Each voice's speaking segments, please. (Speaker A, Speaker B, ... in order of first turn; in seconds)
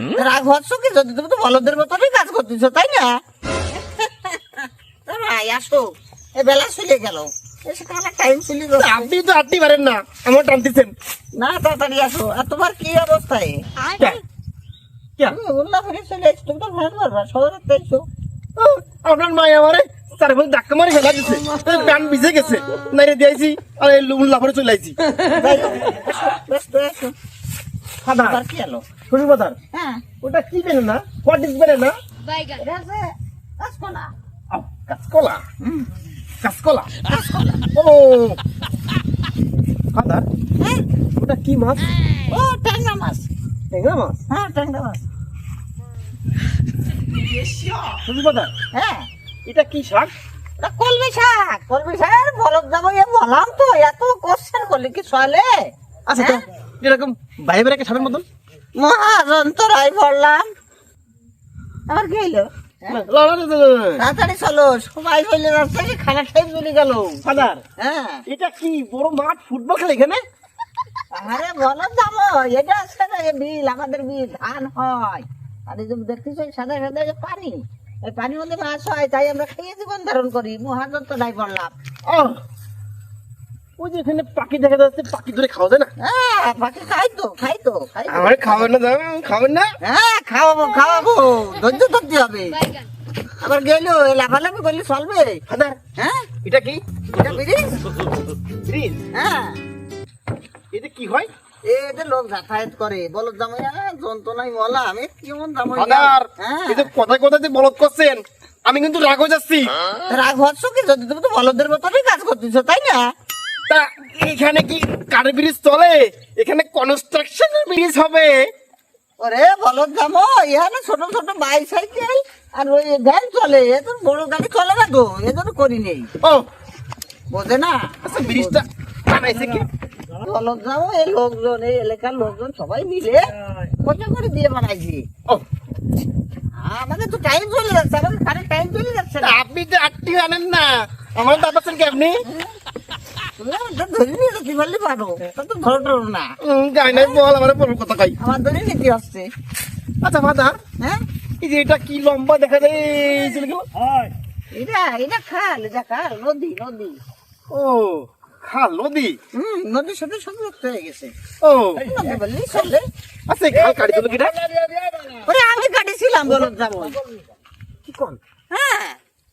Speaker A: 0.1-3.2, 3.7-9.1, 11.4-14.2, 15.3-18.1, 25.2-27.1, 28.2-28.9, 29.7-30.1, 32.4-34.1, 35.6-35.9, 37.1-37.7, 40.6-40.9, 42.3-43.3, 44.3-45.1, 48.7-49.1, 50.6-56.4, 58.8-60.5, 61.9-63.0, 64.0-67.2, 67.8-68.2, 71.1-81.8, 86.0-88.7, 89.8-92.7, 93.4-95.4, 96.0-96.3, 97.1-97.8, 99.1-99.6, 101.7-106.9, 110.1-113.1, 119.2-126.1, 127.3-128.6, 130.2-135.1, 136.5-139.4, 143.4-146.4, 146.9-147.2, 148.2-149.3, 154.5-157.0, 159.3-161.2, 161.8-162.9, 165.2-166.9, 168.5-169.0
Speaker B: 8.8-10.9, 18.6-25.0, 28.0-28.4, 29.1-29.6, 30.2-32.0, 34.5-35.4, 36.4-36.9, 37.7-38.4, 39.9-40.3, 41.2-41.9, 43.7-44.2, 48.0-48.5, 49.5-50.1, 56.1-58.3, 62.9-64.0, 67.2-67.6, 68.3-70.2, 82.1-82.4, 83.8-85.9, 88.1-89.7, 95.5-95.8, 96.4-96.8, 98.7-99.0, 100.7-101.3, 105.8-109.7, 113.7-118.5, 126.2-126.5, 128.0-129.7, 139.2-142.2, 146.4-148.2, 150.0-150.5, 151.4-153.7, 157.5-159.2, 161.4-162.1, 163.3-164.5, 166.3-167.0, 167.9-168.2